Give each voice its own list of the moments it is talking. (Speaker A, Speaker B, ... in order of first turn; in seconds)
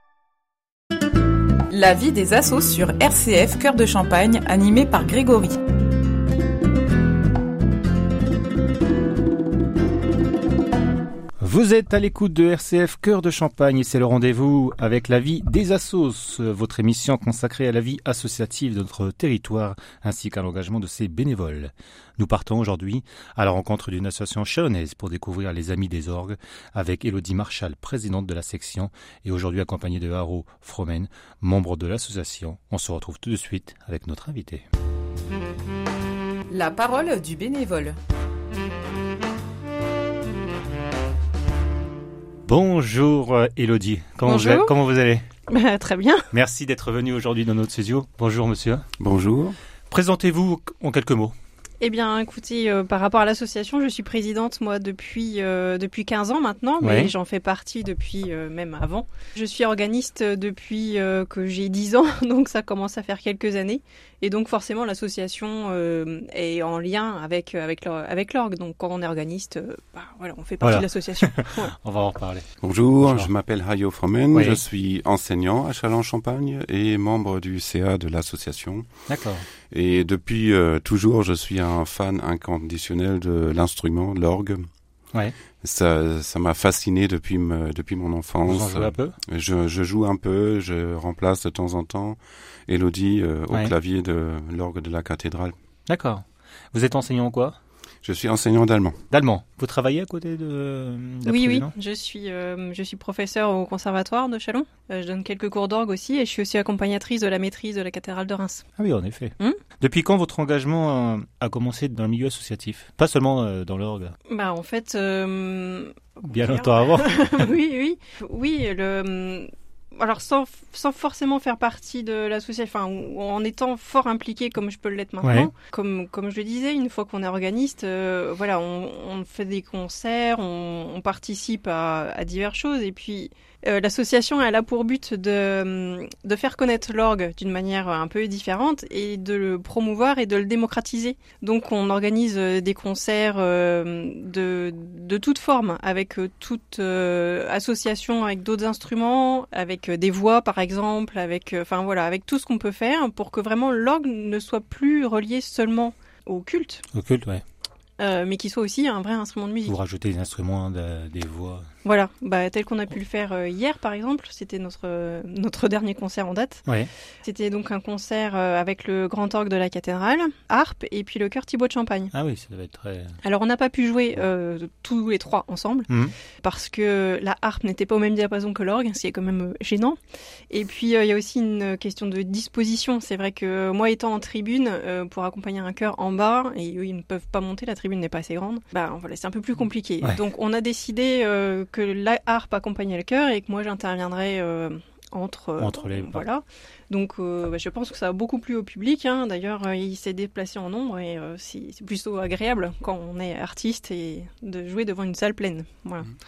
Speaker A: 1.7-5.6, 36.5-38.0
Speaker B: 11.4-34.6, 42.5-45.2, 46.3-48.8, 49.9-51.3, 56.8-57.1, 70.6-72.5, 73.0-73.3, 74.3-74.6, 79.1-79.5, 88.5-89.2, 95.9-97.6, 99.1-101.7, 108.8-114.1, 116.2-117.5, 125.2-125.5, 156.9-157.4, 159.7-161.7, 172.1-173.2, 175.9-176.2, 195.6-196.2
Speaker C: 44.2-44.7, 45.5-46.2, 51.8-71.7, 101.3-108.7, 114.3-156.8, 158.0-159.8, 161.8-166.6, 167.2-172.1, 173.2-180.0, 180.5-206.1
Speaker D: 49.0-49.6, 72.6-78.9, 79.7-84.7, 85.6-95.5, 98.0-99.0